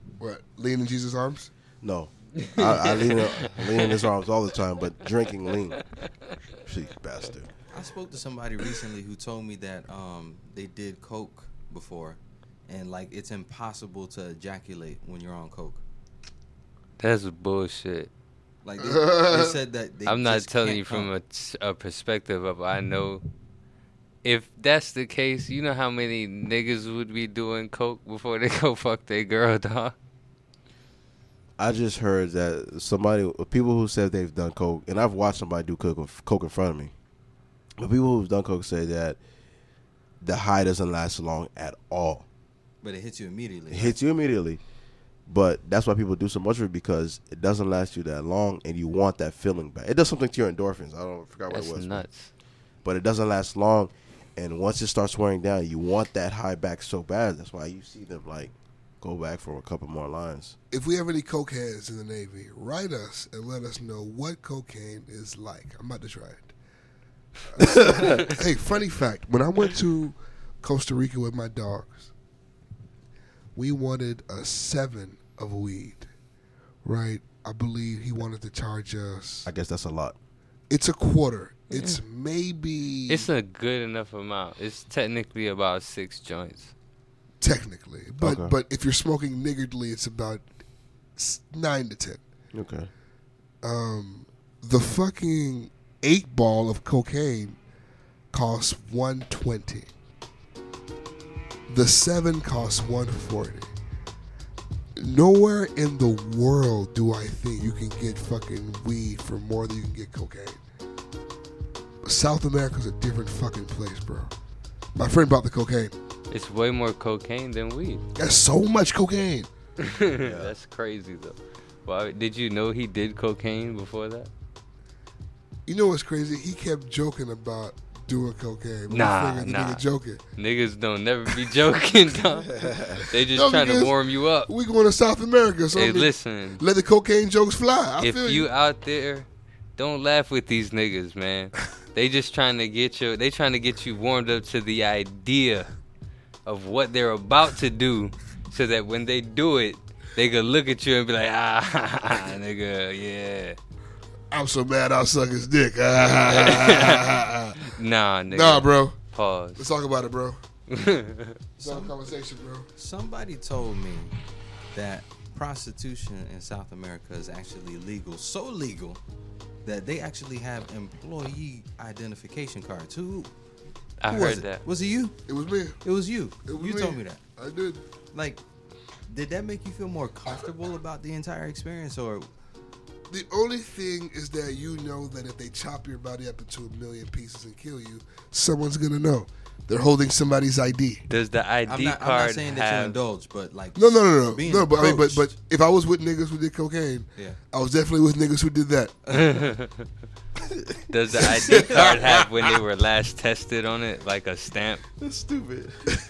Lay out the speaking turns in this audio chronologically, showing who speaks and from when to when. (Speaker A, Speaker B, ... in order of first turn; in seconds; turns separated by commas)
Speaker A: 0.2-1.5, Speaker B: 1.8-5.8, Speaker C: 2.4-4.0, Speaker C: 5.8-6.0, Speaker B: 6.7-7.5, Speaker D: 7.7-15.8, Speaker C: 17.0-18.1, Speaker D: 18.6-21.1, Speaker A: 18.8-19.6, Speaker C: 20.1-23.2, Speaker C: 24.2-29.9, Speaker B: 31.6-36.9, Speaker B: 37.8-39.2, Speaker B: 40.2-42.2, Speaker D: 42.8-44.0, Speaker B: 43.7-44.6, Speaker B: 45.3-52.0, Speaker C: 51.5-52.3, Speaker B: 52.8-60.5, Speaker A: 60.7-66.5, Speaker A: 67.5-72.1, Speaker B: 67.6-68.3, Speaker A: 73.5-76.1, Speaker A: 76.8-79.5, Speaker B: 79.5-80.1, Speaker A: 80.7-83.3, Speaker C: 81.7-82.0, Speaker C: 83.1-86.7, Speaker A: 87.4-90.5, Speaker B: 88.2-88.5, Speaker A: 91.2-92.2, Speaker B: 92.5-92.9, Speaker A: 93.6-97.6, Speaker A: 98.3-99.9, Speaker A: 101.7-103.7, Speaker A: 105.0-110.6, Speaker A: 112.0-114.3, Speaker A: 115.0-115.9, Speaker C: 116.3-118.0, Speaker A: 118.2-119.5, Speaker C: 119.8-124.3, Speaker B: 120.2-120.5, Speaker A: 125.7-130.2, Speaker C: 128.9-129.8, Speaker C: 130.4-134.5, Speaker B: 132.5-133.1, Speaker A: 133.3-138.5, Speaker C: 135.7-136.6, Speaker C: 138.0-145.7, Speaker C: 146.4-153.6, Speaker A: 154.3-157.6, Speaker C: 156.3-159.6, Speaker A: 158.3-159.0, Speaker A: 159.6-160.4, Speaker C: 160.7-161.4, Speaker D: 161.6-162.0, Speaker A: 161.6-162.7, Speaker D: 162.8-164.2, Speaker D: 164.7-169.0, Speaker D: 169.6-173.3, Speaker C: 174.0-174.6, Speaker D: 174.1-175.2, Speaker A: 175.3-175.8, Speaker D: 175.8-177.2, Speaker A: 176.4-177.8, Speaker D: 178.1-178.4, Speaker D: 179.1-182.3, Speaker A: 183.1-191.0, Speaker C: 191.1-193.0, Speaker D: 191.7-195.3, Speaker A: 193.8-198.9, Speaker C: 199.1-199.8, Speaker C: 200.9-204.8, Speaker A: 201.4-202.0, Speaker D: 201.5-201.9, Speaker B: 205.0-206.0